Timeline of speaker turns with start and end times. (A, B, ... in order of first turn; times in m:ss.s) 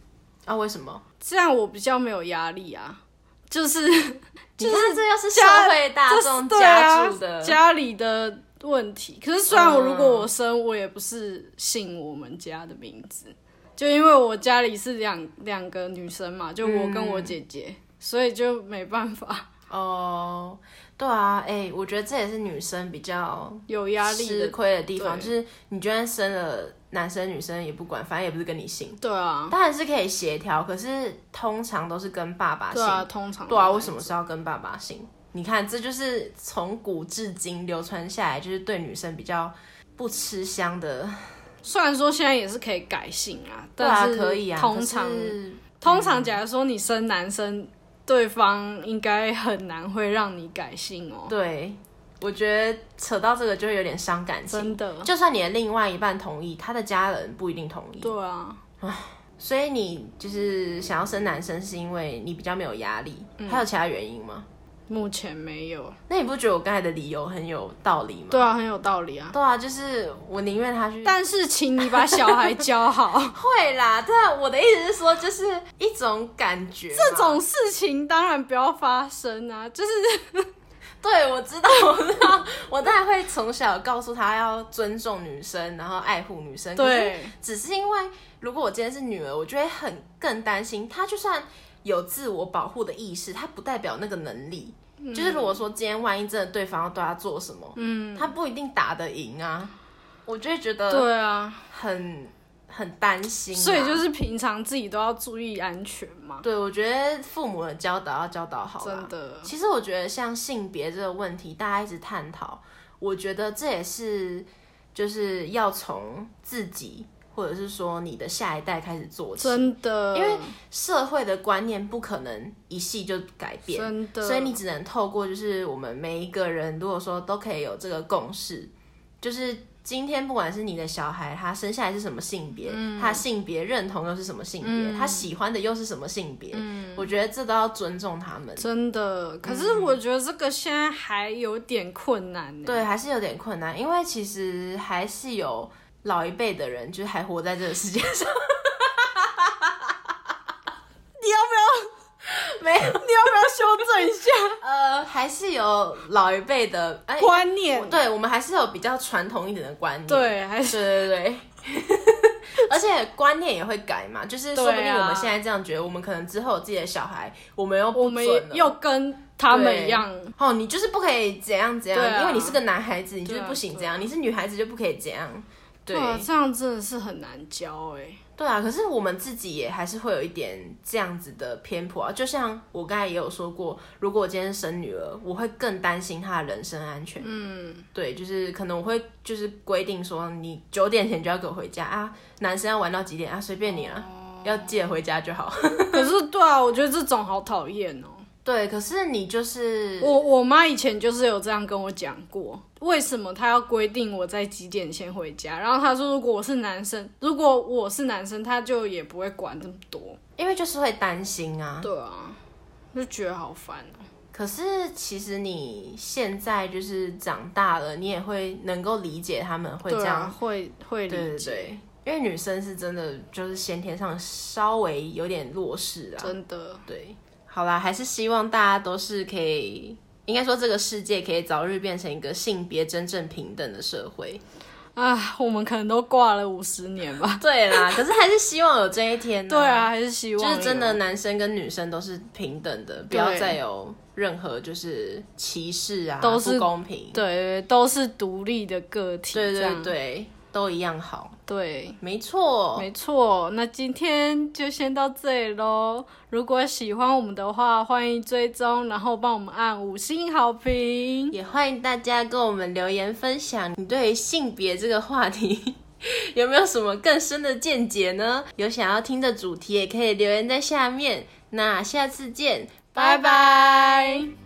0:00.4-0:01.0 A
0:01.2-0:19.5 B
0:04.6-0:07.6 A
0:09.5-0:10.3 A
0:16.6-0:17.4 A
0:19.7-0:41.4 A
0:23.7-0:25.3 B
0:29.0-0:29.5 B
0:32.7-0:34.1 B
0:41.6-0:51.3 B
0:43.8-0:46.4 A
0:51.3-0:58.1 A
0:54.5-0:55.1 B
0:58.0-0:58.6 B
0:58.8-1:04.5 A
1:03.4-1:03.6 B
1:04.9-1:06.0 B
1:06.1-1:08.5 A
1:08.3-1:09.3 B
1:09.3-1:11.2 A
1:11.0-1:13.4 B
1:11.8-1:12.7 A
1:13.2-1:17.4 A
1:16.9-1:20.5 B
1:21.0-1:39.7 A
1:26.8-1:27.3 B
1:35.0-1:35.6 B
1:37.8-1:38.3 B
1:40.2-1:41.1 A
1:40.9-1:41.7 B
1:41.7-1:44.0 A
1:43.5-1:46.4 B
1:46.4-2:18.6 A
1:48.8-1:49.5 B
1:59.4-2:00.6 B
2:03.7-2:04.6 B
2:12.7-2:13.2 B
2:14.6-2:15.3 B
2:16.5-2:17.1 B
2:18.6-2:22.8 B
2:19.4-2:20.0 A
2:22.6-2:29.9 A
2:31.2-2:31.9 B
2:32.3-2:33.7 A
2:32.9-2:34.6 B
2:34.6-2:48.8 A
2:37.2-2:38.0 B
2:40.1-2:41.1 B
2:44.5-2:45.4 B
2:47.9-2:50.3 B
2:49.5-2:56.3 A
2:51.9-2:52.6 B
2:53.2-2:54.0 B
2:55.9-2:58.2 B
2:58.4-3:07.3 A
3:07.2-3:07.8 B
3:07.9-3:16.1 A
3:13.8-3:14.7 B
3:15.9-3:18.2 B
3:18.4-3:20.2 A
3:20.0-3:30.2 B
3:30.4-3:31.9 A
3:31.8-3:32.4 B
3:32.9-3:34.0 B
3:34.3-3:40.4 A
3:39.8-3:41.7 B
3:41.1-3:46.4 A
3:46.2-3:46.8 B
3:46.9-3:54.4 A
3:55.0-3:58.0 B
3:57.4-4:07.2 A
3:59.5-4:01.0 B
4:03.1-4:03.6 B
4:06.2-4:09.9 B
4:09.3-4:11.4 A
4:11.5-4:12.0 B
4:12.0-4:12.9 A
4:12.8-4:21.4 B
4:21.3-4:34.2 A
4:32.9-4:34.3 B